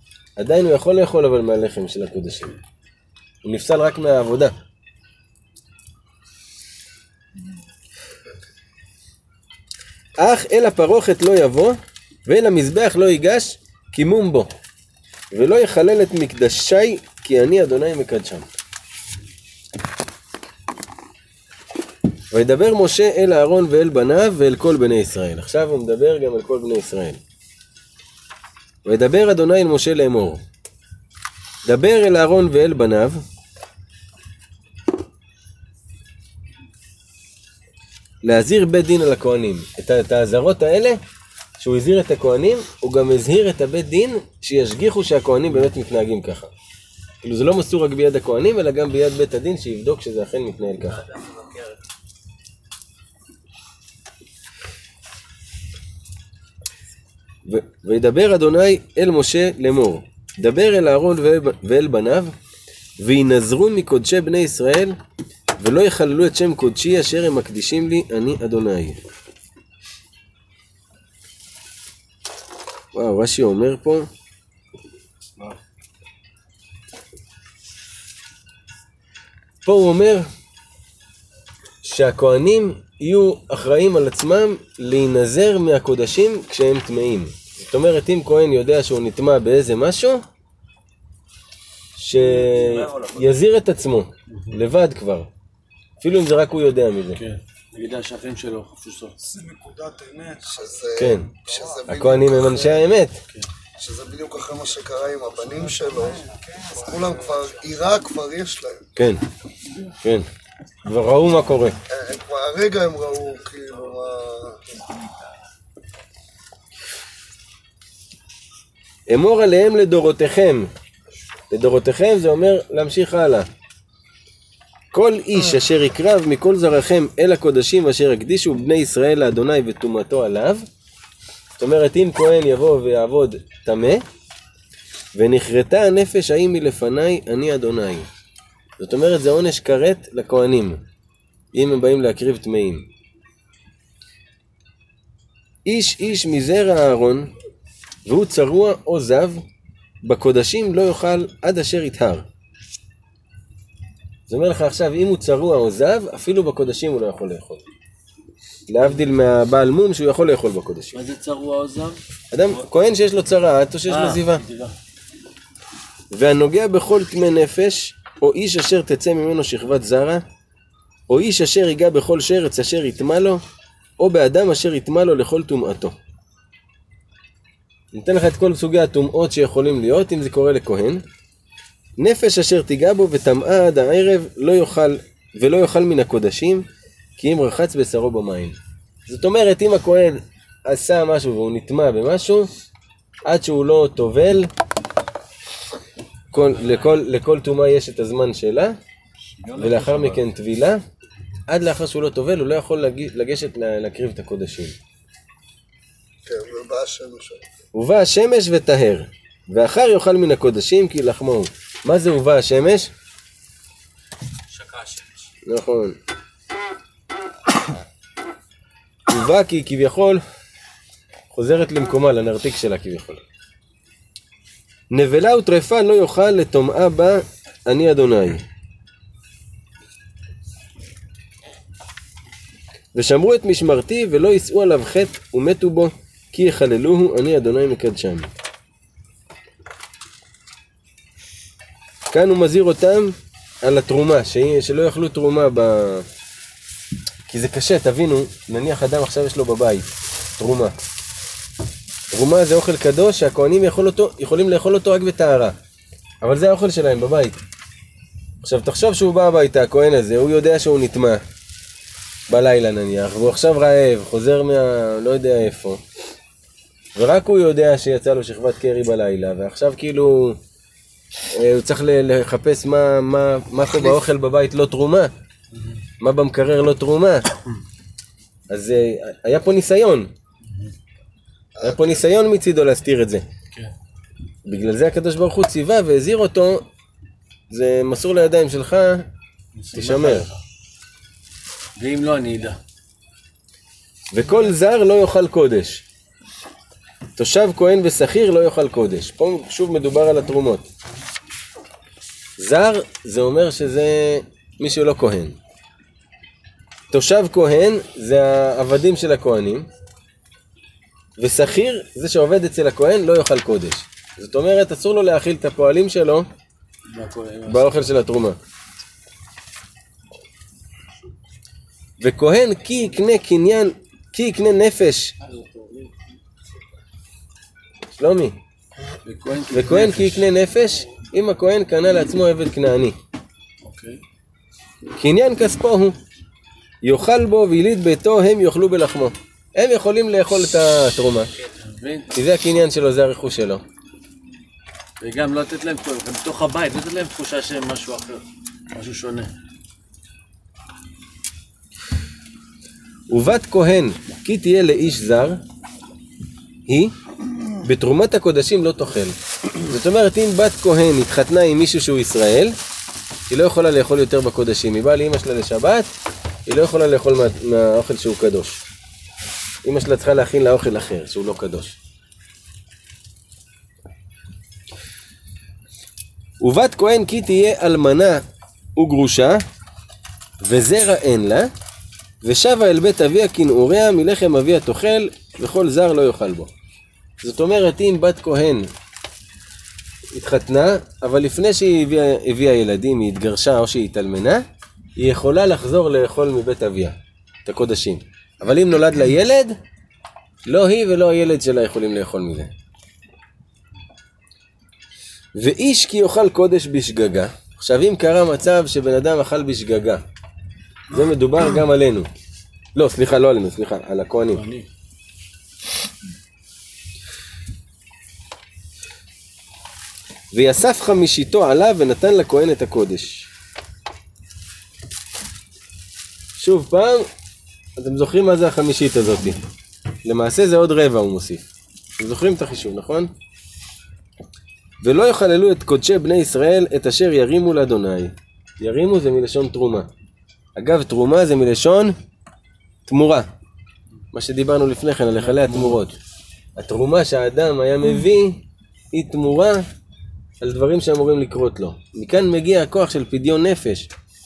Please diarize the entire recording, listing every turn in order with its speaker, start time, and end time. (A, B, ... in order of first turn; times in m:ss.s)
0:00.4-0:02.6 A
0:03.4-0:04.5 A
0:10.2-0:14.5 A
0:15.3-0:18.5 A
0:22.3-0:27.2 A
0:28.8-0:30.4 A
0:31.6-0:33.2 A
0:38.2-0:41.0 A
0:41.6-0:46.5 A
0:47.2-0:51.0 A
0:51.0-0:51.8 B
0:57.5-1:02.3 A
1:03.0-1:05.0 A
1:05.6-1:09.0 A
1:12.9-1:14.1 A
1:19.6-1:20.3 A
1:21.8-1:30.2 A
1:32.0-1:35.3 A
1:32.2-1:33.3 B
1:34.3-1:34.6 C
1:36.0-1:37.2 A
1:37.2-1:39.2 C
1:39.2-1:40.9 D
1:40.4-1:42.9 E
1:41.0-1:41.3 A
1:41.5-1:41.9 D
1:41.9-1:43.2 A
1:43.8-1:48.8 E
1:45.5-1:47.4 D
1:49.0-1:49.2 A
1:50.0-1:50.3 A
1:50.8-1:51.8 A
1:51.9-1:54.7 E
1:59.1-2:00.7 A
2:01.5-2:03.5 A
2:04.9-2:10.7 A
2:11.6-2:14.0 A
2:15.2-2:18.1 A
2:18.8-2:20.8 A
2:21.5-2:22.9 A
2:25.6-2:27.3 A
2:28.1-2:29.4 A
2:30.0-2:32.3 A
2:34.3-2:37.6 A
2:38.7-2:41.0 A
2:40.9-2:42.0 C
2:42.3-2:44.4 A
2:43.9-2:44.8 C
2:46.1-2:50.2 A
2:51.1-2:53.4 A
2:54.0-2:56.0 A
2:57.9-3:01.0 A
3:02.0-3:06.7 A
3:07.2-3:08.6 A
3:09.1-3:12.5 A
3:13.2-3:14.5 A
3:16.3-3:18.8 A
3:19.6-3:20.8 A
3:21.5-3:24.8 A
3:26.3-3:27.4 E
3:27.7-3:32.9 A
3:34.5-3:35.2 B
3:35.5-3:36.0 A
3:39.1-3:40.2 A
3:41.3-3:43.2 A
3:44.9-3:48.4 A
3:53.0-3:58.3 A
4:02.1-4:06.1 A
4:07.3-4:10.8 A
4:12.1-4:15.6 A
4:16.2-4:17.4 A
4:18.4-4:21.2 A
4:22.3-4:25.8 A
4:27.0-4:30.4 A
4:31.3-4:35.1 A
4:36.0-4:37.3 A
4:38.5-4:40.1 A
4:40.5-4:40.7 C
4:41.6-4:42.0 E
4:41.6-4:43.2 A
4:44.5-4:46.6 A
4:47.5-4:49.1 A
4:49.6-4:50.4 C
4:49.7-4:50.3 A
4:51.8-4:52.6 C
4:54.1-4:55.8 A
4:57.2-5:00.7 A
5:02.4-5:05.4 A
5:06.9-5:09.7 A
5:11.2-5:16.3 A
5:16.9-5:17.8 C
5:17.5-5:18.4 A
5:22.0-5:25.2 A
5:25.2-5:25.9 C
5:28.0-5:28.4 A
5:29.0-5:30.3 C
5:29.5-5:33.0 A
5:33.6-5:34.0 C
5:35.0-5:36.0 A
5:36.8-5:41.3 A
5:41.7-5:42.1 C
5:42.1-5:43.6 A
5:45.0-5:49.3 C
5:53.1-5:55.4 A
5:56.7-5:56.9 A
5:57.6-5:59.1 A
5:59.7-6:02.6 A
6:03.3-6:05.9 A
6:06.5-6:08.6 A
6:09.6-6:11.8 A
6:16.4-6:18.2 A
6:18.8-6:19.4 A
6:20.4-6:21.5 A
6:22.2-6:26.5 A
6:27.2-6:28.7 A
6:30.1-6:39.6 A
6:40.5-6:42.5 A
6:45.4-6:50.0 A
6:50.9-6:52.1 A
6:52.8-6:54.4 A
6:54.3-6:54.7 C
7:00.3-7:03.3 A
7:06.4-7:07.1 A
7:07.8-7:09.4 A
7:10.0-7:11.5 A
7:12.0-7:13.1 A
7:14.8-7:19.9 A
7:20.6-7:22.0 A
7:22.9-7:23.3 A
7:24.1-7:26.0 A
7:25.2-7:25.8 C
7:26.6-7:29.6 A
7:30.4-7:33.9 A